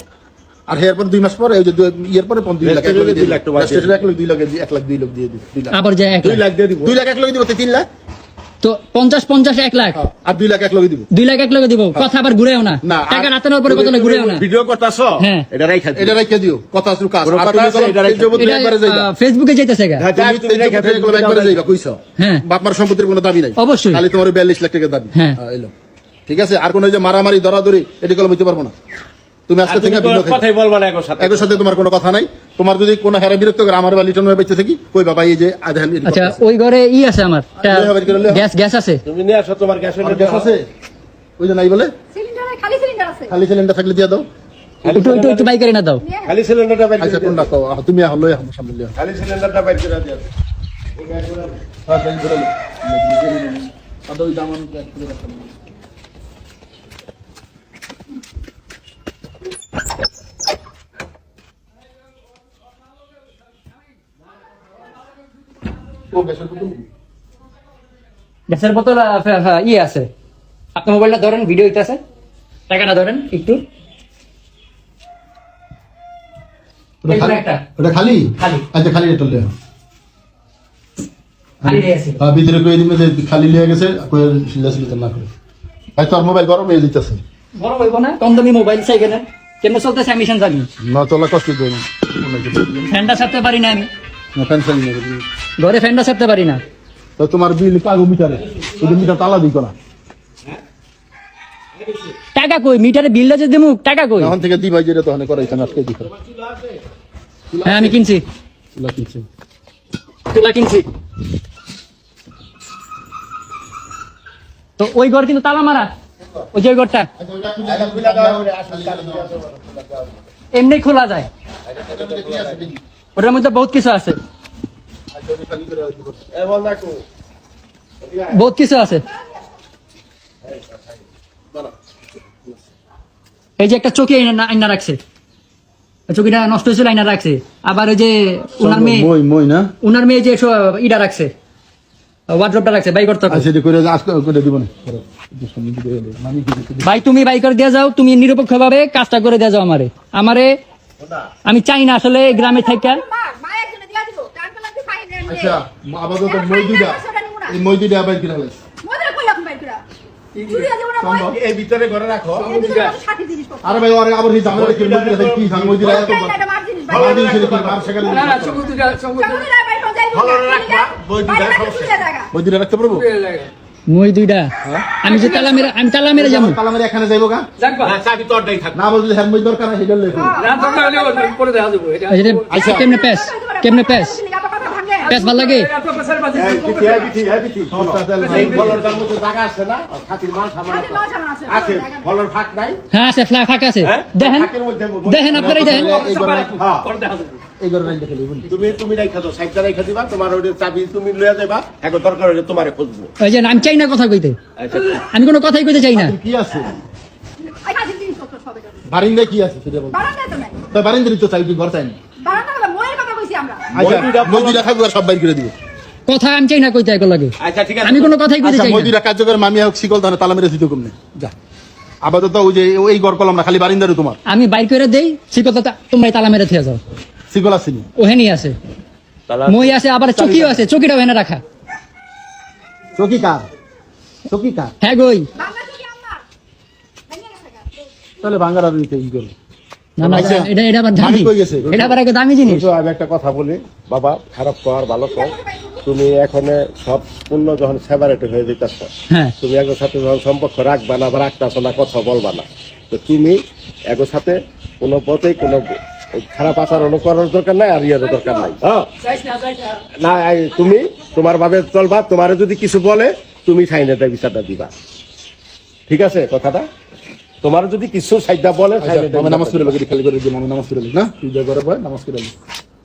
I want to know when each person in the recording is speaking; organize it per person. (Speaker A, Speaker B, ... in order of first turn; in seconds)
Speaker A: 0.7-5.8, 6.8-7.9, 9.9-11.1, 12.8-13.3, 16.0-19.1, 20.1-25.7, 26.3-28.7, 29.5-30.4, 31.2-36.4, 37.6-38.5, 40.0-40.7, 41.4-41.9, 43.3-44.3, 47.0-48.9, 51.9-55.5, 66.1-66.8, 77.0-79.5, 81.7-85.3, 86.0-87.2, 90.8-93.0, 94.3-95.2, 97.2-99.7, 104.2-106.1, 107.5-108.0, 108.8-109.2, 117.2-119.3, 121.8-122.8, 125.1-126.3, 138.6-139.7, 143.3-147.0, 155.3-158.6, 161.0-161.4, 163.6-166.3, 166.9-168.7, 172.3-173.1, 176.2-177.4, 178.8-180.4, 182.5-182.9, 187.7-189.0, 195.3-196.6, 197.6-198.5, 205.9-206.7, 208.9-210.0, 210.7-212.0, 213.7-215.5, 218.4-221.3, 222.0-224.2, 227.3-227.9, 233.0-233.4, 234.3-234.7, 238.2-239.3, 240.0-241.7, 268.8-272.3
Speaker B: 2.6-4.0, 6.2-7.0, 13.7-16.2, 17.2-18.5, 20.0-21.7, 29.6-31.6, 39.1-40.5, 44.8-45.5, 46.2-47.5, 49.0-50.2, 51.0-51.6, 106.2-106.7, 117.7-120.2, 121.7-122.6, 126.3-127.0, 128.0-128.4, 130.4-131.0, 151.0-151.3, 161.2-162.5, 164.5-168.4, 170.1-172.1, 177.8-178.8, 186.3-192.8, 193.8-195.8, 196.6-196.8, 198.5-203.1, 204.6-205.0, 213.7-214.7, 217.4-218.1, 229.3-230.6, 241.7-258.9, 260.0-264.7, 265.9-266.7, 267.4-269.8
Speaker C: 5.7-6.4, 8.6-10.0, 11.1-14.4, 15.2-15.5, 18.4-20.1, 22.2-22.4, 23.6-24.0, 36.0-39.0, 44.9-46.0, 68.5-70.1, 70.8-72.0, 72.7-73.7, 77.1-77.6, 78.4-78.6, 81.6-82.2, 87.6-90.7, 92.9-93.9, 95.6-96.6, 102.3-104.3, 107.7-108.2, 110.3-110.9, 114.8-115.9, 116.5-117.1, 120.5-121.3, 123.2-124.2, 128.3-129.1, 133.6-135.0, 136.1-139.1, 139.8-141.3, 142.3-143.5, 146.8-150.6, 151.5-153.0, 173.9-174.5, 175.0-176.6, 182.1-184.2, 185.1-185.7, 192.9-194.5, 195.1-195.9, 203.2-204.4, 205.0-206.2, 216.1-218.9, 224.3-226.8, 228.0-228.6, 229.5-231.4, 234.8-235.3, 240.0-242.7
Speaker D: 42.1-43.3, 46.0-46.4, 152.3-155.6, 156.2-157.6, 158.8-159.8, 160.4-161.3, 162.4-163.8, 165.8-167.5, 168.5-172.3, 180.1-181.3, 182.7-185.2, 190.7-192.1, 207.6-208.8, 209.9-210.6, 212.2-213.7, 235.4-236.2, 237.1-237.7, 245.1-245.8
Speaker E: 160.3-160.7, 162.4-163.0, 168.0-169.5, 172.9-173.5, 175.1-175.7, 177.6-178.0, 180.4-182.7, 185.1-187.2, 188.1-188.8, 195.5-197.4, 258.0-259.8